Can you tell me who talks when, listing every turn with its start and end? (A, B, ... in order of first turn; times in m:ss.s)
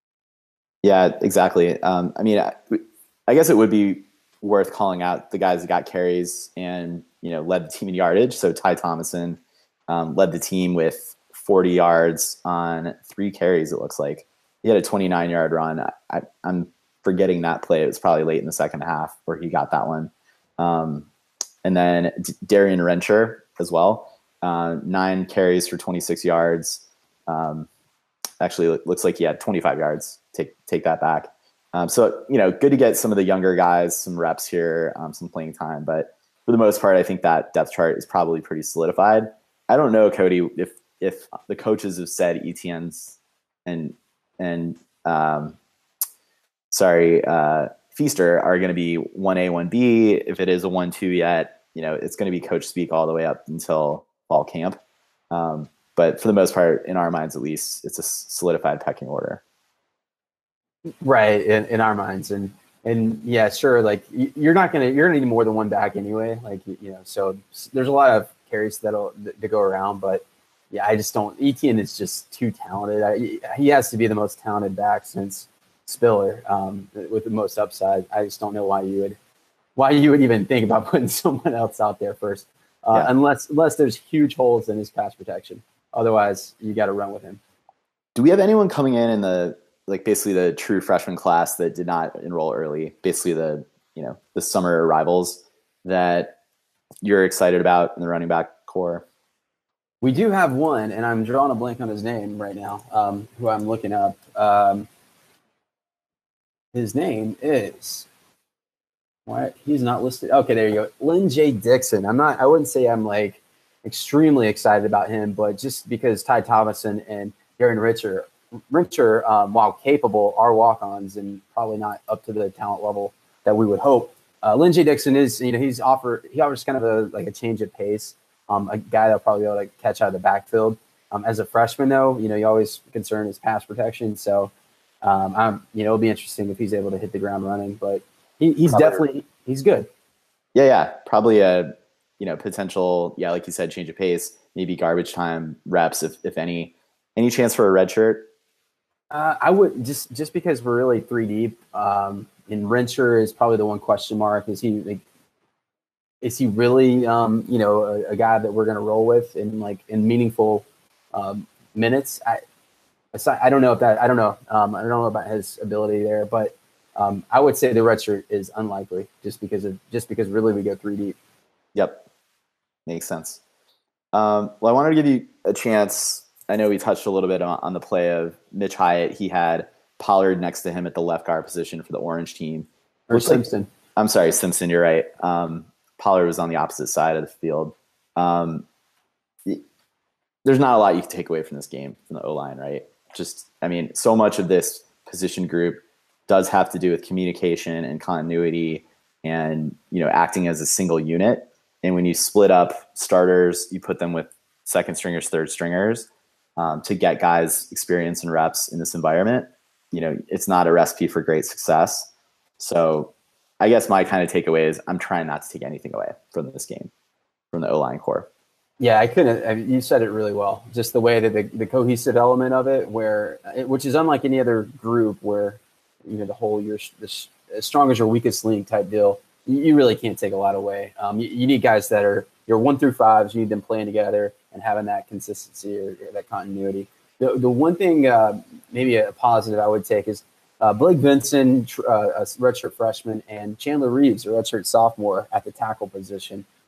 0:00.8-0:21.1 A
0:21.6-0:27.7 A
0:28.4-0:45.6 A
0:46.7-0:54.8 A
0:55.3-0:59.4 A
1:01.0-1:19.2 B
1:19.8-1:27.4 B
1:28.1-1:36.4 A
1:37.0-1:39.0 A
1:40.0-1:44.9 B
1:46.7-1:48.1 B
1:49.3-2:14.5 B
2:15.0-2:19.9 B
2:18.7-2:19.0 A
2:20.5-2:28.3 A
2:29.1-2:35.0 B
2:36.2-2:42.4 B
2:43.1-2:51.2 B
2:51.7-2:52.0 A
2:52.9-2:53.4 A
2:54.1-3:03.4 A
3:03.1-3:03.7 B
3:04.0-3:08.6 A
3:10.4-3:36.9 A
3:37.5-3:38.3 A
3:38.8-4:06.4 B